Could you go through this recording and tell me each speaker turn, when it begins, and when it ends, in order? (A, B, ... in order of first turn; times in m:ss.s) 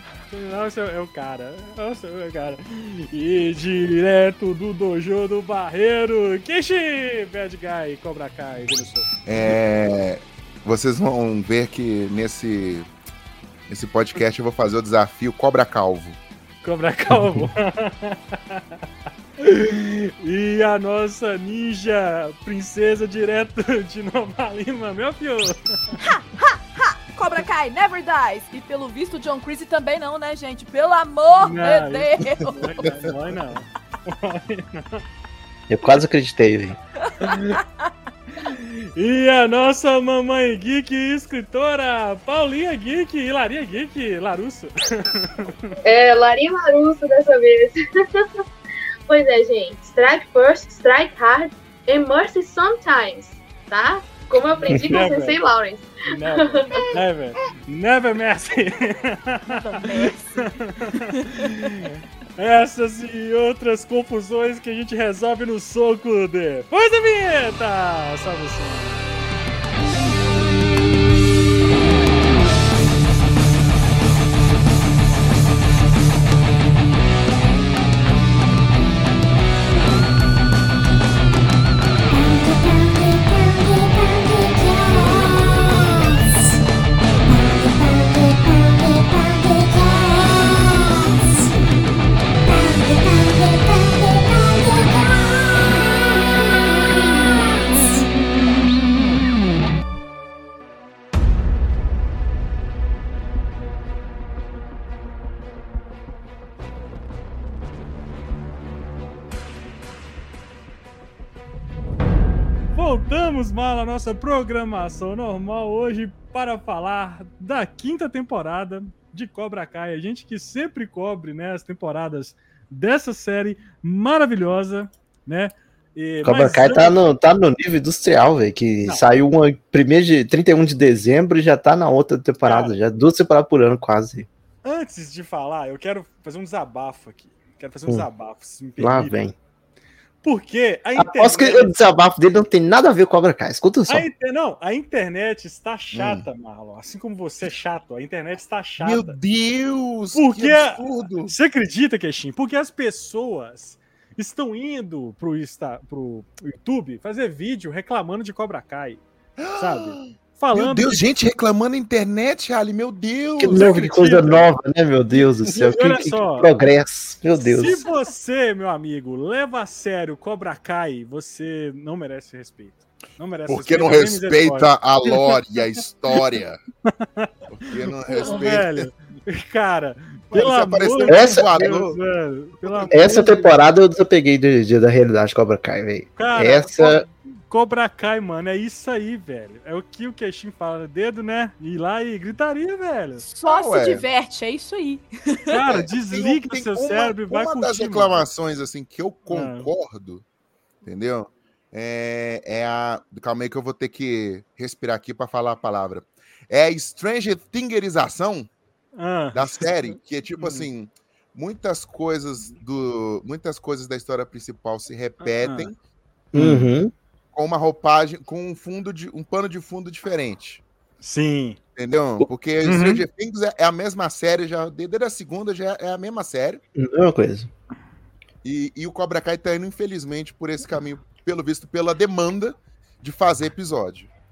0:00.3-0:09.1 A
0:09.3-0:12.9 B
0:13.7-0:16.2 B
0:16.6-0:18.6 A
0:17.1-0:17.5 C
0:19.4-0:26.0 A
0:26.0-0:32.9 D
0:31.4-0:35.0 A
0:35.7-0:36.8 C
0:37.1-0:37.9 D
0:37.2-0:37.6 A
0:38.4-0:45.8 A
0:45.8-0:48.2 E
0:49.1-0:56.9 E
0:54.6-0:55.4 A
0:54.7-0:55.1 C
0:56.1-1:09.0 A
0:59.5-1:01.7 D
1:52.8-2:07.0 A
2:06.2-2:14.3 C
2:12.4-2:12.8 A
2:14.6-2:19.2 A
2:18.8-2:19.3 C
2:20.2-2:21.7 A
2:21.0-2:24.1 C
2:23.9-2:29.2 A
2:25.9-2:26.3 B
2:28.8-2:31.3 B
2:30.1-2:39.0 A
2:39.4-2:43.7 B
2:39.6-2:41.1 A
2:43.4-2:47.8 C
2:43.4-2:44.5 A
2:45.5-2:46.5 A
2:47.4-2:55.4 A
2:53.5-2:56.6 B
2:56.9-2:57.3 A
2:57.5-2:58.9 B
2:57.8-3:03.5 A
2:58.1-2:58.5 D
3:00.3-3:02.0 B
3:01.1-3:01.4 C
3:02.6-3:03.4 B
3:02.9-3:07.0 C
3:06.2-3:13.2 A
3:13.2-3:14.0 B
3:13.4-3:15.5 D
3:15.5-3:18.2 A
3:15.7-3:20.2 B
3:19.3-3:19.7 A
3:20.8-3:28.5 B
3:29.0-3:29.7 A
3:29.3-3:35.7 B
3:30.4-3:30.7 A
3:35.2-3:35.7 A
3:36.3-3:36.9 C
3:36.4-3:36.7 A
3:37.3-3:40.6 B
3:41.0-3:41.6 A
3:41.8-3:46.6 B
3:42.6-3:43.1 A
3:46.8-3:47.5 C
3:48.4-3:54.1 B